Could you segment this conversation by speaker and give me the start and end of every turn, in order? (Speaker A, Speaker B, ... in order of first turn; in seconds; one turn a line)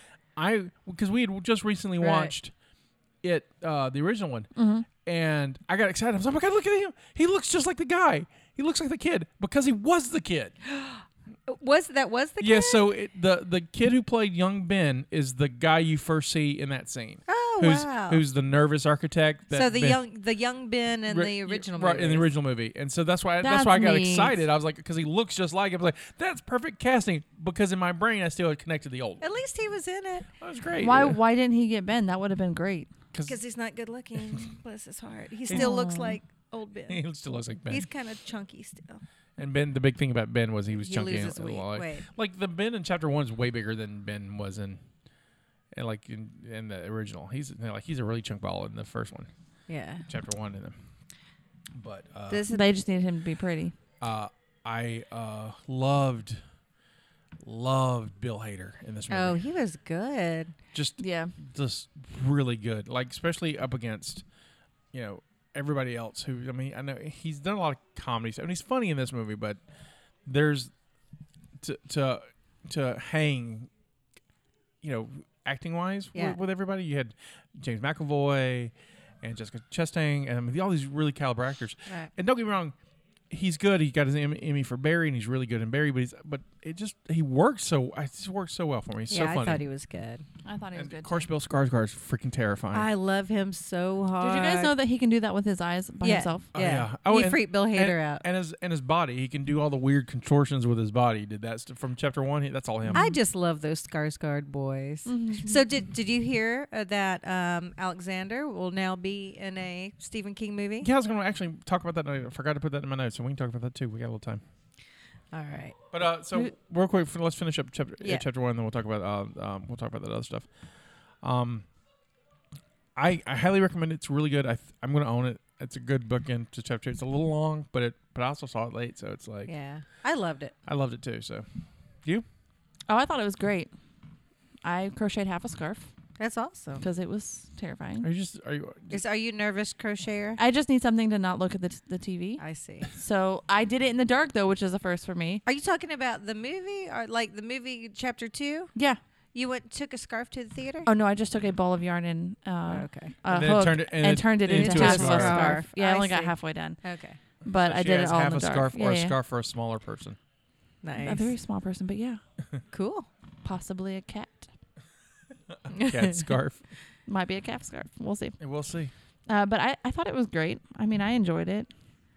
Speaker A: 0.4-2.5
Speaker B: 2.0-2.3
Speaker A: 3.2-10.6
Speaker C: 4.5-4.9
Speaker B: 10.6-12.9
Speaker A: 12.4-20.0
Speaker B: 17.3-18.2
Speaker B: 19.5-22.3
Speaker A: 21.1-29.3
Speaker C: 23.4-24.4
Speaker B: 29.2-30.3
Speaker A: 30.4-31.2
Speaker C: 30.8-32.9
Speaker B: 33.3-37.0
Speaker A: 35.5-35.8
Speaker C: 35.5-36.2
Speaker A: 36.9-37.9
Speaker B: 37.7-39.0
Speaker A: 39.4-44.8
Speaker B: 40.8-42.1
Speaker A: 45.7-49.3
Speaker B: 49.7-50.0
Speaker A: 50.1-50.8
Speaker A: 51.7-52.4
Speaker B: 52.3-52.7
Speaker C: 52.5-53.7
Speaker A: 54.0-56.4
Speaker A: 57.4-59.4
Speaker B: 59.1-60.6
Speaker A: 60.7-64.2
Speaker C: 61.0-61.3
Speaker A: 64.9-69.6
Speaker A: 70.3-70.7
Speaker A: 71.6-73.7
Speaker A: 74.8-82.8
Speaker A: 83.3-89.6
Speaker B: 89.1-90.2
Speaker C: 90.4-91.3
Speaker A: 90.8-92.9
Speaker B: 92.7-94.7
Speaker C: 94.2-96.5
Speaker B: 96.0-98.2
Speaker A: 96.5-103.1
Speaker C: 102.9-103.2
Speaker B: 102.9-110.9
Speaker C: 105.1-105.6
Speaker A: 110.8-114.4
Speaker B: 115.3-115.8
Speaker A: 115.9-120.5
Speaker A: 121.2-121.7
Speaker A: 123.0-129.5
Speaker B: 129.5-130.6
Speaker A: 130.7-131.4
Speaker C: 132.9-133.7
Speaker C: 134.6-135.9
Speaker B: 136.2-136.8
Speaker C: 136.8-138.1
Speaker A: 138.0-139.0
Speaker B: 138.9-140.4
Speaker C: 140.4-142.4
Speaker B: 142.4-142.9
Speaker C: 142.9-145.4
Speaker B: 145.4-148.7
Speaker B: 149.3-150.9
Speaker C: 150.9-156.8
Speaker B: 152.7-153.2
Speaker A: 153.3-155.6
Speaker B: 154.5-157.2
Speaker C: 157.4-159.2
Speaker A: 157.5-160.2
Speaker B: 160.8-161.3
Speaker C: 161.0-162.2
Speaker B: 162.7-163.1
Speaker C: 163.4-164.5
Speaker A: 165.7-166.6
Speaker B: 165.7-166.2
Speaker C: 167.1-168.4
Speaker A: 168.4-168.9
Speaker C: 169.3-171.7